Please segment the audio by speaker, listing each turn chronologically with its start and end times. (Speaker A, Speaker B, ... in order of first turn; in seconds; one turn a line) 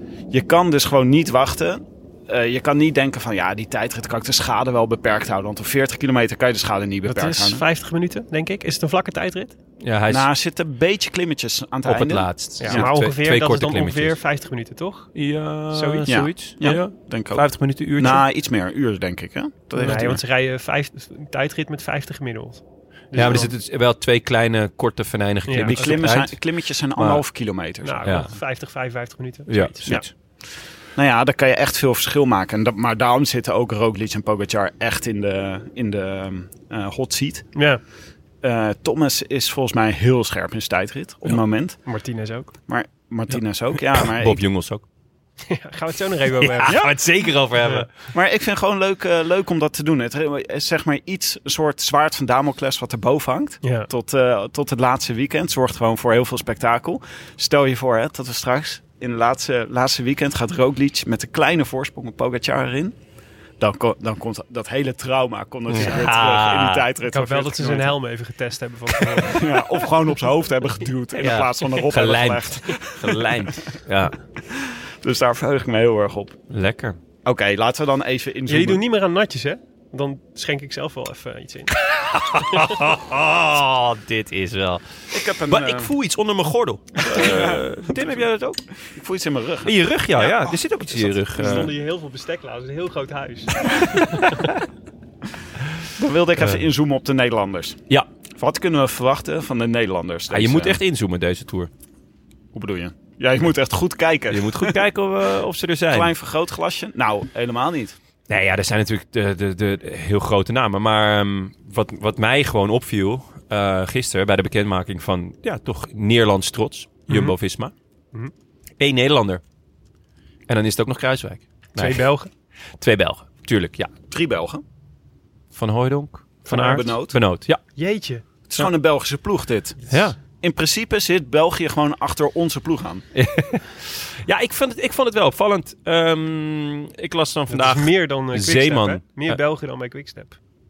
Speaker A: 0.3-7.6
Speaker B: 7.0-9.5
Speaker C: 9.8-10.3
Speaker A: 10.1-12.9
Speaker C: 11.8-14.2
Speaker B: 12.6-15.1
Speaker C: 15.1-18.2
Speaker B: 15.7-16.1
Speaker A: 16.1-20.2
Speaker B: 19.8-23.5
Speaker C: 23.1-26.4
Speaker B: 25.5-26.0
Speaker A: 25.7-28.1
Speaker C: 26.9-27.2
Speaker B: 27.8-30.1
Speaker C: 28.0-28.3
Speaker C: 29.5-30.1
Speaker A: 30.9-37.5
Speaker B: 37.5-37.8
Speaker A: 38.4-41.9
Speaker B: 41.9-42.5
Speaker A: 42.7-44.4
Speaker C: 43.3-44.8
Speaker B: 45.5-46.8
Speaker C: 46.5-47.9
Speaker A: 46.7-46.9
Speaker A: 48.1-62.9
Speaker B: 53.6-53.9
Speaker A: 63.6-67.9
Speaker C: 65.7-66.9
Speaker B: 67.1-69.4
Speaker A: 69.2-73.3
Speaker C: 71.2-74.1
Speaker A: 74.5-76.4
Speaker C: 76.5-77.0
Speaker A: 77.2-78.8
Speaker B: 78.5-81.7
Speaker C: 81.8-88.7
Speaker B: 82.3-82.8
Speaker A: 85.1-85.9
Speaker A: 87.0-88.2
Speaker A: 88.9-91.7
Speaker C: 89.6-91.7
Speaker B: 91.3-94.2
Speaker A: 96.0-97.8
Speaker A: 98.4-100.8
Speaker C: 100.3-101.7
Speaker A: 102.5-104.7
Speaker C: 104.3-106.1
Speaker A: 105.9-108.0
Speaker C: 108.3-117.7
Speaker B: 117.1-117.3
Speaker C: 118.8-119.4
Speaker C: 120.5-122.0
Speaker B: 121.7-122.3
Speaker C: 122.8-123.9
Speaker A: 124.1-124.6
Speaker C: 125.5-127.6
Speaker A: 126.5-127.2
Speaker B: 126.5-126.8
Speaker B: 127.8-128.2
Speaker A: 128.5-133.1
Speaker C: 129.9-130.2
Speaker C: 133.1-139.4
Speaker B: 137.5-140.3